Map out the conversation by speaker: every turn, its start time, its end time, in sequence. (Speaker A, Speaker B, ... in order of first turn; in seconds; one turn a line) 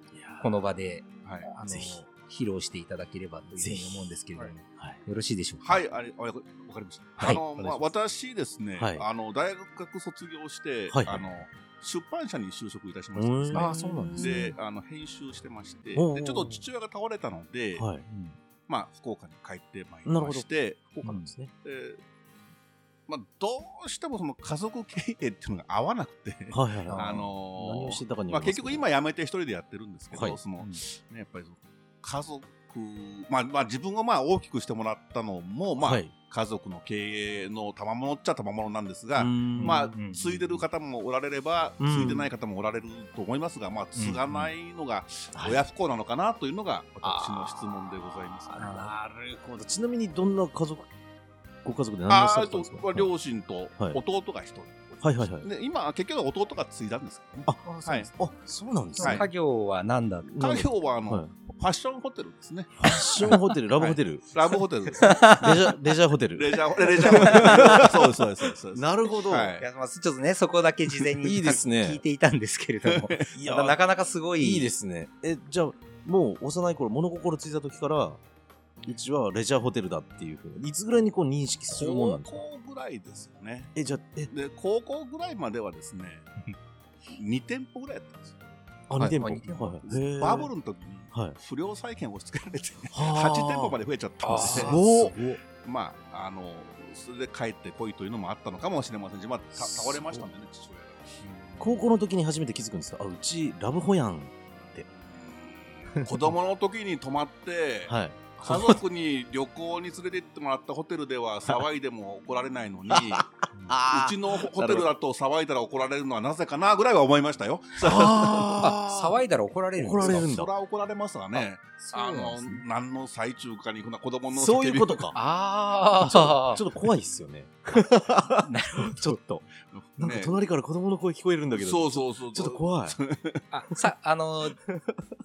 Speaker A: 0.1-0.6
Speaker B: 0.4-5.8
Speaker A: 1.6-2.0
Speaker A: 3.5-4.1
Speaker C: 5.6-17.9
Speaker A: 7.2-7.9
Speaker A: 8.8-9.1
Speaker A: 10.9-11.3
Speaker A: 13.1-14.5
Speaker B: 13.5-14.5
Speaker A: 15.9-16.6
Speaker A: 17.8-18.1
Speaker B: 18.1-18.4
Speaker C: 18.7-21.0
Speaker A: 20.1-21.5
Speaker B: 21.0-21.3
Speaker C: 21.6-22.0
Speaker C: 23.1-48.6
Speaker A: 26.5-28.8
Speaker B: 26.9-27.3
Speaker A: 30.1-30.4
Speaker A: 35.8-36.1
Speaker A: 39.1-39.9
Speaker B: 39.5-40.6
Speaker A: 41.8-42.3
Speaker B: 44.0-44.5
Speaker A: 45.3-45.6
Speaker A: 47.0-50.9
Speaker B: 48.6-48.9
Speaker A: 51.6-53.1
Speaker C: 52.1-58.1
Speaker A: 55.0-55.5
Speaker B: 57.6-58.1
Speaker A: 58.1-59.3
Speaker B: 58.9-60.4
Speaker C: 59.0-59.3
Speaker A: 60.3-61.3
Speaker C: 60.4-65.3
Speaker A: 62.8-64.3
Speaker B: 62.8-63.3
Speaker B: 65.0-65.7
Speaker A: 65.4-68.2
Speaker C: 66.3-69.6
Speaker B: 66.9-67.9
Speaker A: 68.7-69.6
Speaker B: 69.6-74.7
Speaker A: 71.2-72.0
Speaker C: 72.8-73.2
Speaker A: 73.3-73.8
Speaker A: 74.4-78.2
Speaker A: 78.8-82.4
Speaker C: 81.7-83.8
Speaker A: 83.8-84.3
Speaker C: 84.3-86.3
Speaker C: 87.1-88.4
Speaker A: 88.9-90.5
Speaker B: 89.0-90.5
Speaker C: 89.8-101.2
Speaker A: 91.1-91.4
Speaker A: 92.9-93.8
Speaker B: 94.2-94.8
Speaker A: 94.3-95.4
Speaker A: 99.6-100.2
Speaker B: 101.2-101.8
Speaker A: 101.6-104.9
Speaker C: 104.9-113.3
Speaker A: 107.9-108.8
Speaker A: 112.9-114.9
Speaker B: 113.5-113.8
Speaker C: 113.9-118.7
Speaker A: 117.8-119.2
Speaker B: 118.6-120.2
Speaker A: 119.8-120.5
Speaker C: 120.0-125.0
Speaker B: 121.4-122.6
Speaker A: 124.3-125.2
Speaker B: 125.1-126.7
Speaker A: 126.0-129.5
Speaker B: 128.3-129.1
Speaker C: 129.7-130.4
Speaker A: 130.0-133.0
Speaker C: 131.5-133.4
Speaker B: 133.5-134.6
Speaker A: 134.7-135.1